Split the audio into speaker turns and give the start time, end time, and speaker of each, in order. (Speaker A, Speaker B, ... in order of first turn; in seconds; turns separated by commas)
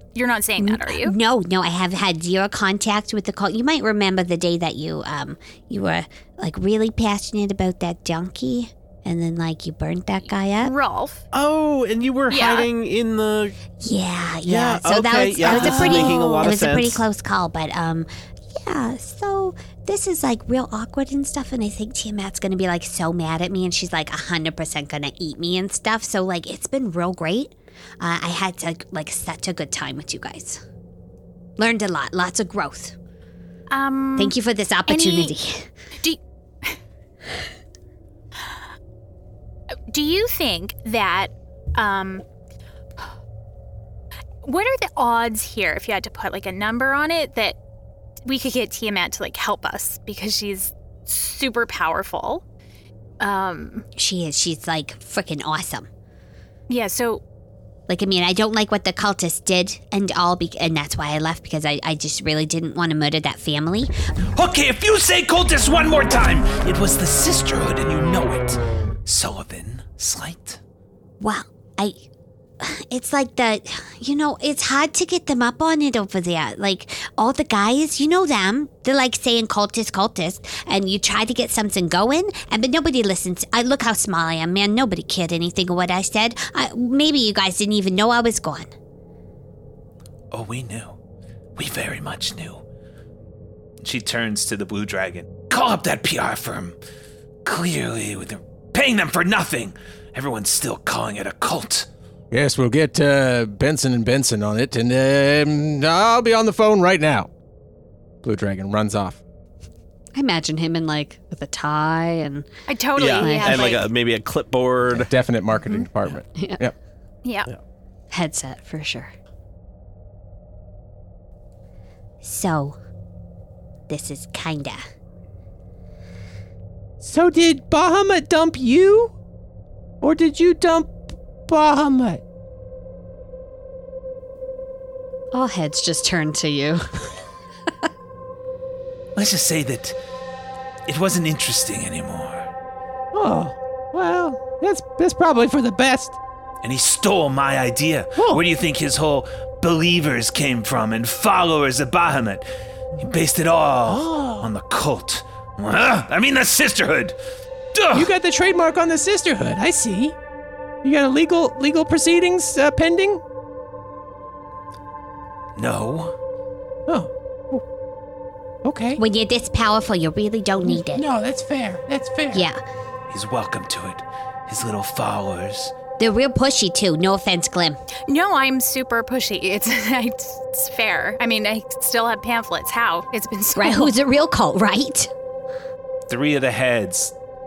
Speaker A: 0.1-1.1, Speaker B: 0.6-10.7, Speaker A: 10.6-11.3, Speaker C: 11.3-13.6, Speaker A: 12.3-12.7, Speaker B: 13.8-30.6, Speaker C: 14.5-17.0, Speaker A: 15.4-16.5, Speaker B: 31.6-33.0, Speaker A: 33.7-34.4, Speaker B: 34.2-35.7, Speaker A: 34.9-35.4, Speaker A: 36.0-36.8, Speaker A: 39.9-42.2, Speaker A: 44.4-47.6, Speaker A: 48.2-52.4, Speaker A: 53.2-53.9, Speaker B: 54.0-55.9, Speaker A: 56.7-57.2, Speaker B: 57.9-63.9, Speaker D: 64.3-70.6, Speaker B: 71.2-72.0, Speaker B: 72.6-88.7, Speaker D: 90.3-91.0, Speaker D: 91.6-92.6, Speaker D: 93.8-96.8, Speaker D: 97.5-101.9, Speaker E: 102.3-107.3, Speaker E: 108.2-109.2, Speaker B: 110.1-112.5, Speaker A: 112.7-113.9, Speaker C: 113.0-115.1, Speaker B: 113.2-113.9, Speaker E: 114.9-116.7, Speaker B: 116.4-116.6, Speaker A: 117.2-117.5, Speaker B: 118.1-119.1, Speaker B: 122.2-122.8, Speaker B: 123.9-124.8, Speaker F: 127.0-129.1, Speaker F: 130.0-132.2, Speaker B: 135.3-137.1, Speaker D: 139.2-140.0, Speaker D: 140.9-142.5, Speaker F: 143.1-146.2, Speaker D: 146.6-152.4, Speaker F: 148.2-148.4, Speaker D: 153.0-157.2, Speaker F: 153.9-154.5, Speaker D: 157.7-158.1, Speaker F: 157.9-160.2, Speaker F: 160.8-163.2, Speaker D: 165.6-166.2, Speaker F: 166.9-167.6, Speaker F: 168.6-169.0, Speaker B: 169.0-171.1, Speaker F: 170.6-172.5, Speaker B: 172.3-172.6, Speaker D: 173.1-175.7, Speaker B: 176.0-177.8, Speaker A: 178.1-184.0, Speaker B: 183.6-185.1, Speaker D: 186.1-187.1